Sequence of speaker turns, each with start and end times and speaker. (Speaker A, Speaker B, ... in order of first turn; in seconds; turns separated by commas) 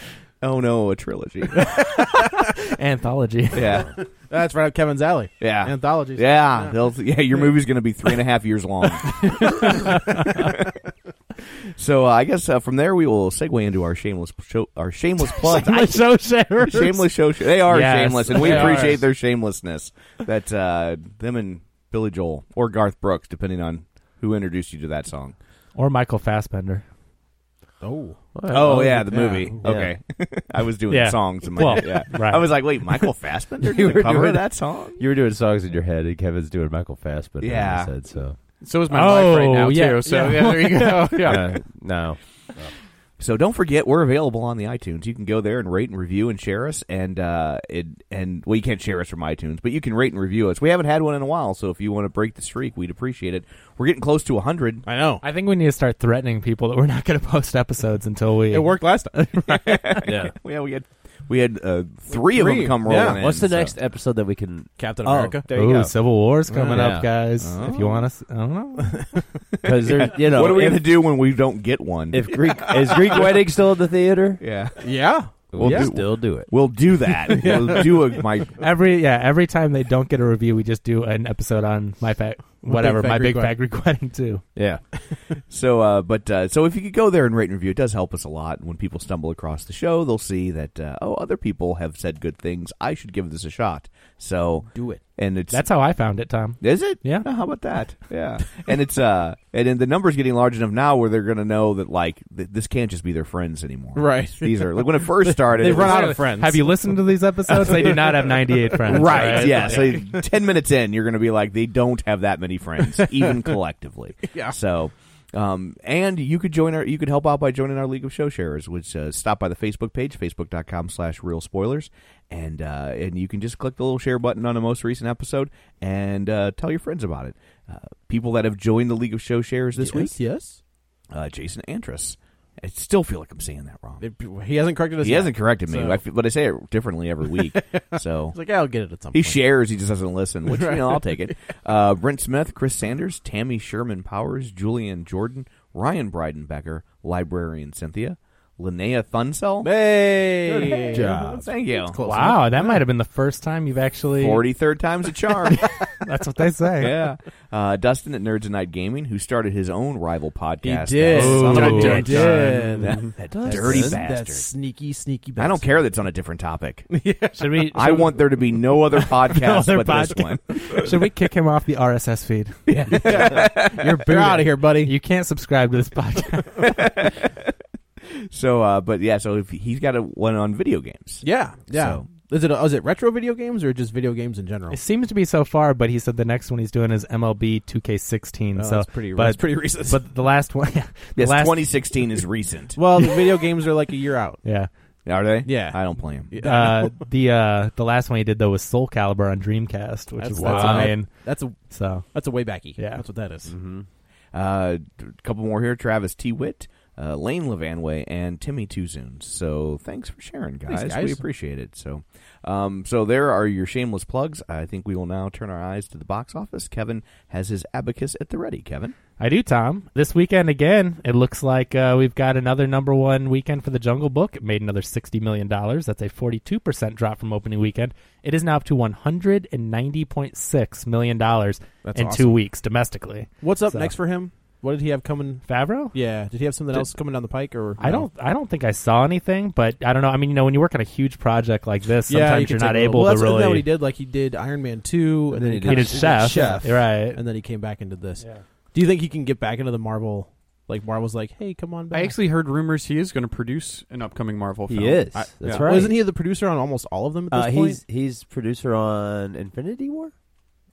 Speaker A: 0.4-1.7, Speaker B: 1.6-3.8, Speaker A: 3.5-3.9, Speaker C: 4.0-6.8, Speaker A: 5.4-10.7, Speaker B: 9.5-10.5, Speaker A: 11.7-16.1, Speaker B: 15.2-17.2, Speaker A: 16.6-25.4, Speaker B: 17.7-19.0, Speaker C: 18.4-19.0, Speaker B: 25.8-26.8, Speaker C: 27.8-29.9, Speaker D: 28.3-30.0, Speaker A: 28.5-35.0, Speaker B: 30.9-32.6, Speaker D: 33.6-38.4, Speaker A: 37.4-37.9, Speaker E: 38.6-41.5, Speaker B: 38.9-41.2, Speaker D: 41.2-42.7, Speaker A: 43.2-54.9, Speaker C: 54.9-55.2, Speaker B: 55.2-60.0, Speaker C: 58.5-59.5, Speaker A: 59.5-63.7, Speaker D: 60.0-60.3, Speaker C: 62.1-63.2, Speaker D: 63.0-66.0, Speaker C: 64.8-65.5, Speaker B: 65.5-69.1, Speaker C: 66.5-67.0, Speaker D: 66.7-67.1, Speaker A: 67.4-68.1, Speaker C: 68.8-69.3, Speaker D: 69.6-71.0, Speaker A: 70.0-73.5, Speaker D: 72.1-74.4, Speaker A: 74.4-78.6, Speaker C: 74.8-75.9, Speaker D: 75.5-76.5, Speaker C: 77.3-78.2, Speaker B: 78.6-84.4, Speaker C: 82.6-83.5, Speaker D: 84.5-84.8, Speaker A: 85.5-95.7, Speaker C: 94.7-95.0, Speaker B: 95.5-97.3, Speaker A: 96.6-106.3, Speaker C: 103.9-110.2, Speaker B: 105.6-110.0, Speaker A: 108.9-130.2, Speaker C: 113.0-113.3, Speaker C: 114.2-114.6, Speaker C: 129.8-130.6, Speaker A: 131.1-134.0, Speaker C: 134.0-136.0, Speaker A: 135.0-138.6, Speaker C: 137.4-139.5, Speaker A: 139.1-149.9, Speaker C: 140.5-141.3, Speaker C: 149.6-152.8, Speaker A: 150.7-152.0, Speaker D: 150.8-151.4, Speaker B: 152.0-154.4, Speaker A: 154.2-155.8, Speaker B: 155.6-157.1, Speaker A: 156.8-164.5, Speaker C: 160.6-165.9, Speaker B: 161.1-162.8, Speaker D: 163.3-164.1, Speaker A: 165.4-166.9, Speaker C: 166.9-167.6, Speaker B: 167.3-168.7, Speaker A: 167.7-170.8, Speaker B: 169.3-176.8, Speaker A: 172.7-174.0, Speaker C: 173.1-173.4, Speaker C: 174.1-175.0, Speaker A: 176.7-177.4, Speaker A: 178.3-182.1, Speaker C: 181.2-184.8, Speaker B: 184.7-192.0, Speaker C: 188.6-190.1, Speaker A: 191.2-192.8, Speaker C: 192.8-194.4, Speaker B: 194.4-194.7, Speaker A: 195.1-196.3, Speaker C: 195.4-197.0, Speaker B: 196.4-203.1, Speaker C: 200.2-203.5, Speaker D: 200.4-200.9, Speaker D: 203.5-203.9, Speaker A: 204.3-219.0, Speaker C: 210.7-211.2, Speaker B: 219.2-234.0, Speaker C: 231.8-232.4, Speaker C: 233.4-238.1, Speaker B: 235.5-236.0, Speaker B: 237.8-243.7, Speaker C: 242.1-252.2, Speaker D: 245.3-246.7, Speaker B: 245.7-247.2, Speaker E: 251.9-255.8, Speaker D: 254.7-256.1, Speaker C: 255.1-257.8, Speaker D: 257.3-260.1